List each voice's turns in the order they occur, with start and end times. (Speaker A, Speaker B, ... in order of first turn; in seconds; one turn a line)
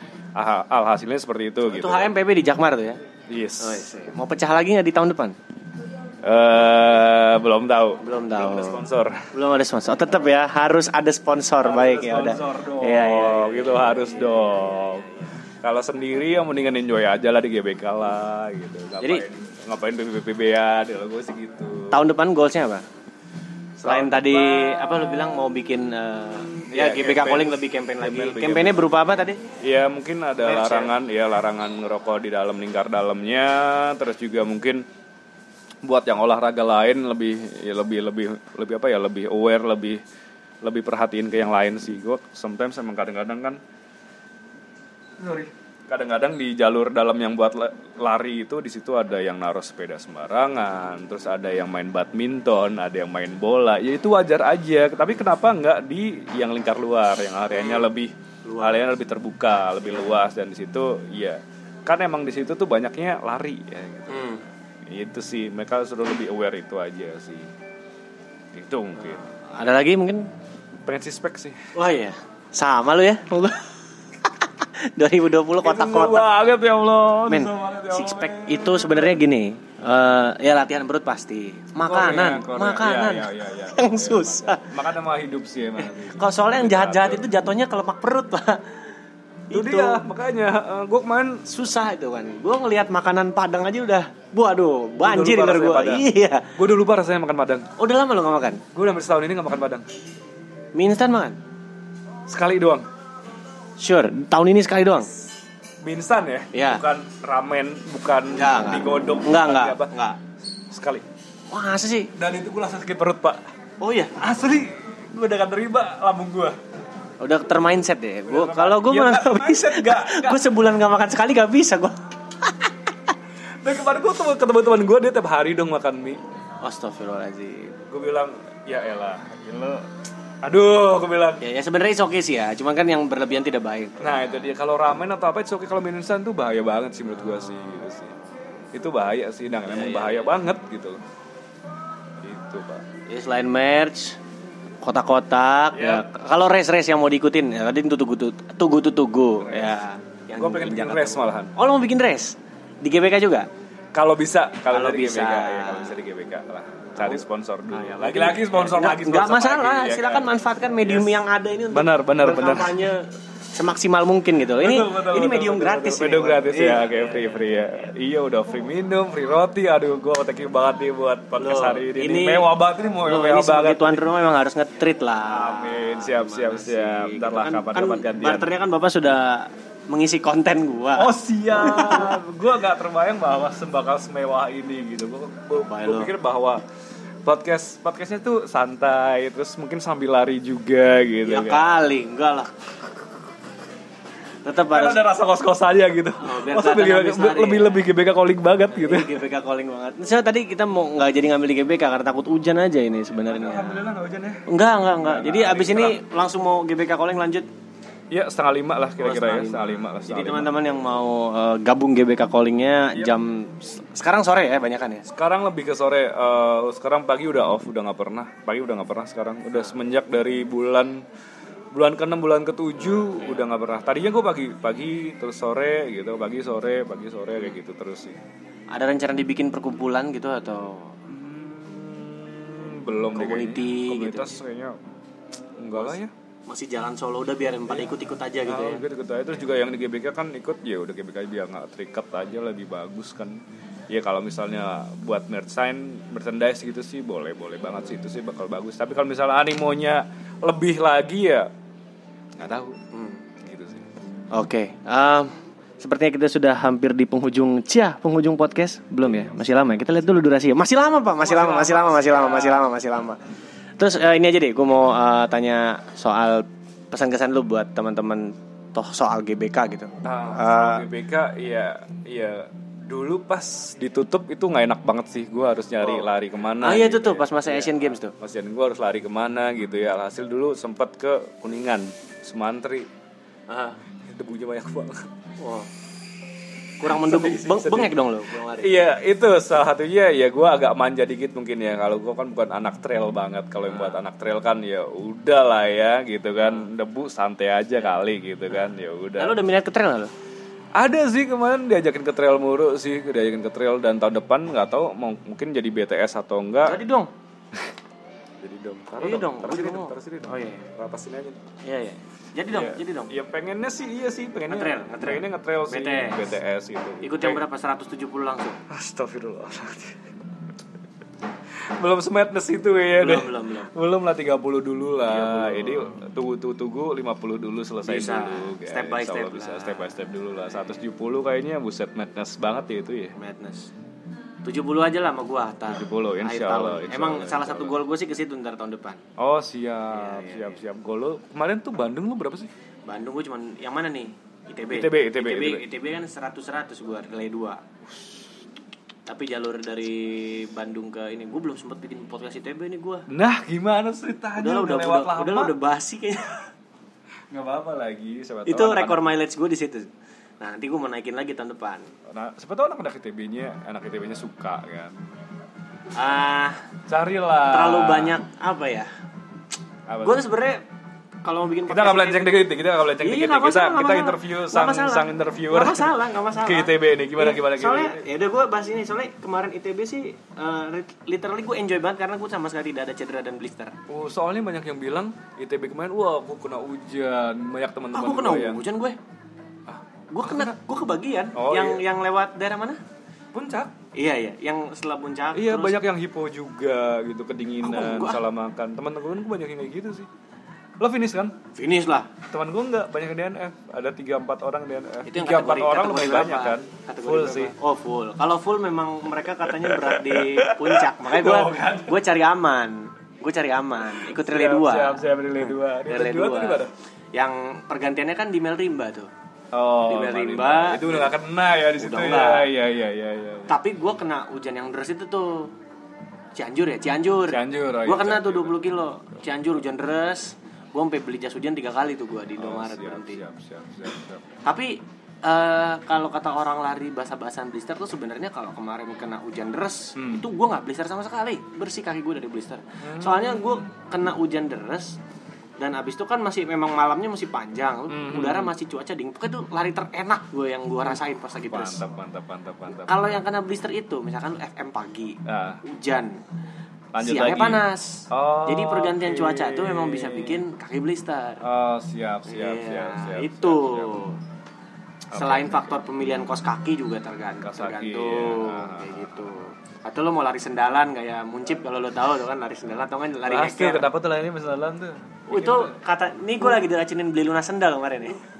Speaker A: 0.3-2.1
Speaker B: 1.7-3.0
Speaker A: 3.3-3.9
Speaker B: 3.6-5.4
Speaker A: 6.2-9.3
Speaker B: 8.0-8.8
Speaker B: 9.3-13.9
Speaker A: 11.6-22.0
Speaker B: 21.9-22.9
Speaker A: 23.8-25.0
Speaker B: 23.8-29.4
Speaker A: 26.5-28.9
Speaker A: 29.6-34.9
Speaker B: 30.4-30.9
Speaker A: 35.8-40.0
Speaker A: 40.6-43.6
Speaker A: 45.2-67.5
Speaker B: 57.5-57.9
Speaker B: 58.5-58.9
Speaker B: 59.9-60.2
Speaker B: 64.1-64.4
Speaker A: 68.5-69.2
Speaker B: 69.1-70.3
Speaker A: 70.9-71.7
Speaker B: 71.8-73.7
Speaker B: 74.2-76.3
Speaker A: 75.6-79.2
Speaker B: 77.3-84.7
Speaker A: 81.8-87.3
Speaker B: 85.8-88.6
Speaker B: 89.5-90.0
Speaker A: 89.5-91.5
Speaker B: 91.5-96.5
Speaker A: 95.0-97.7
Speaker B: 97.8-98.6
Speaker A: 98.7-99.9
Speaker B: 100.7-101.4
Speaker A: 102.3-102.9
Speaker B: 103.8-105.1
Speaker A: 105.8-109.9
Speaker B: 106.5-106.8
Speaker B: 108.3-110.2
Speaker A: 110.7-111.1
Speaker B: 111.5-112.1
Speaker A: 112.2-113.4
Speaker B: 113.8-114.2
Speaker A: 114.2-116.6
Speaker B: 117.2-122.9
Speaker A: 118.3-120.5
Speaker A: 123.6-126.2
Speaker B: 126.6-127.8
Speaker A: 127.9-129.9
Speaker A: 130.4-131.4
Speaker B: 131.4-134.3
Speaker A: 134.0-138.1
Speaker A: 138.7-141.0
Speaker B: 139.7-140.3
Speaker A: 142.2-142.9
Speaker B: 143.1-144.2
Speaker B: 144.8-153.5
Speaker A: 145.7-146.1
Speaker A: 149.4-149.8
Speaker A: 150.4-151.5
Speaker A: 153.9-161.1
Speaker B: 154.7-156.0
Speaker B: 157.0-167.2
Speaker A: 161.7-162.9
Speaker A: 164.6-174.0
Speaker B: 171.4-172.5
Speaker B: 173.0-182.2
Speaker A: 175.3-178.5
Speaker A: 180.9-186.6
Speaker B: 185.6-186.1
Speaker A: 187.2-191.6
Speaker B: 191.2-192.5
Speaker B: 194.4-195.0
Speaker A: 194.7-199.2
Speaker B: 196.2-197.7
Speaker B: 198.7-203.8
Speaker A: 203.3-204.4
Speaker B: 204.5-207.5
Speaker A: 205.0-206.0
Speaker A: 208.1-210.7
Speaker B: 209.0-215.1
Speaker A: 215.1-221.0
Speaker A: 221.7-228.2
Speaker B: 228.7-231.0
Speaker A: 231.1-234.8
Speaker B: 233.1-234.3
Speaker A: 235.6-236.1
Speaker B: 236.5-238.8
Speaker A: 238.4-251.5
Speaker A: 252.4-252.8
Speaker B: 252.9-253.2
Speaker A: 253.4-253.9
Speaker B: 254.3-263.2
Speaker A: 261.2-262.7
Speaker B: 263.8-270.9
Speaker A: 270.0-282.9
Speaker B: 276.6-278.1
Speaker B: 283.5-283.8
Speaker A: 284.1-285.1
Speaker B: 285.4-285.7
Speaker B: 286.8-288.9
Speaker A: 286.8-288.0
Speaker A: 288.6-299.4
Speaker B: 293.7-294.0
Speaker B: 299.2-300.1
Speaker A: 300.8-306.8
Speaker B: 306.6-307.1
Speaker A: 308.4-311.4
Speaker B: 309.0-310.7
Speaker B: 311.6-313.1
Speaker A: 312.5-317.4
Speaker B: 314.5-316.4
Speaker B: 317.0-318.6
Speaker A: 318.7-320.1
Speaker A: 321.7-333.1
Speaker B: 323.0-323.7
Speaker B: 325.1-326.0
Speaker B: 327.9-330.0
Speaker B: 333.2-333.7
Speaker B: 334.4-339.0
Speaker A: 335.7-337.8
Speaker A: 339.2-342.5
Speaker B: 339.9-340.6
Speaker B: 342.9-347.6
Speaker A: 344.7-345.6
Speaker B: 349.1-353.1
Speaker A: 353.1-355.6
Speaker B: 354.4-356.5
Speaker A: 357.3-359.0
Speaker B: 358.5-361.9
Speaker A: 362.1-365.0
Speaker B: 365.9-366.6
Speaker A: 366.9-368.2
Speaker B: 367.5-368.9
Speaker A: 369.9-370.3
Speaker B: 370.0-370.6
Speaker B: 371.2-372.4
Speaker A: 371.7-378.1
Speaker B: 373.0-383.8
Speaker A: 383.9-388.6
Speaker B: 387.9-389.0
Speaker A: 389.7-390.6
Speaker B: 390.1-392.8
Speaker A: 391.4-391.8
Speaker A: 393.3-393.7
Speaker B: 393.9-395.8
Speaker A: 395.3-400.1
Speaker B: 397.6-398.2
Speaker A: 400.8-401.4
Speaker B: 401.5-402.1
Speaker A: 402.3-407.6
Speaker B: 405.1-415.1
Speaker A: 409.4-412.0
Speaker A: 413.9-416.7
Speaker B: 415.9-419.1
Speaker A: 419.5-423.6
Speaker B: 419.9-421.1
Speaker B: 421.8-422.5
Speaker B: 423.5-425.5
Speaker B: 426.4-433.2
Speaker A: 427.3-428.6
Speaker A: 432.4-434.3
Speaker B: 434.4-445.0
Speaker A: 440.0-440.3
Speaker A: 442.8-443.7
Speaker B: 445.6-451.8
Speaker A: 447.9-448.5
Speaker A: 451.5-453.2
Speaker B: 452.9-456.2
Speaker A: 455.3-455.6
Speaker A: 456.9-460.4
Speaker B: 457.0-461.4
Speaker A: 461.4-463.9
Speaker B: 462.3-464.2
Speaker A: 465.1-465.8
Speaker B: 465.1-473.9
Speaker A: 467.4-469.2
Speaker A: 473.2-475.8
Speaker B: 475.3-478.2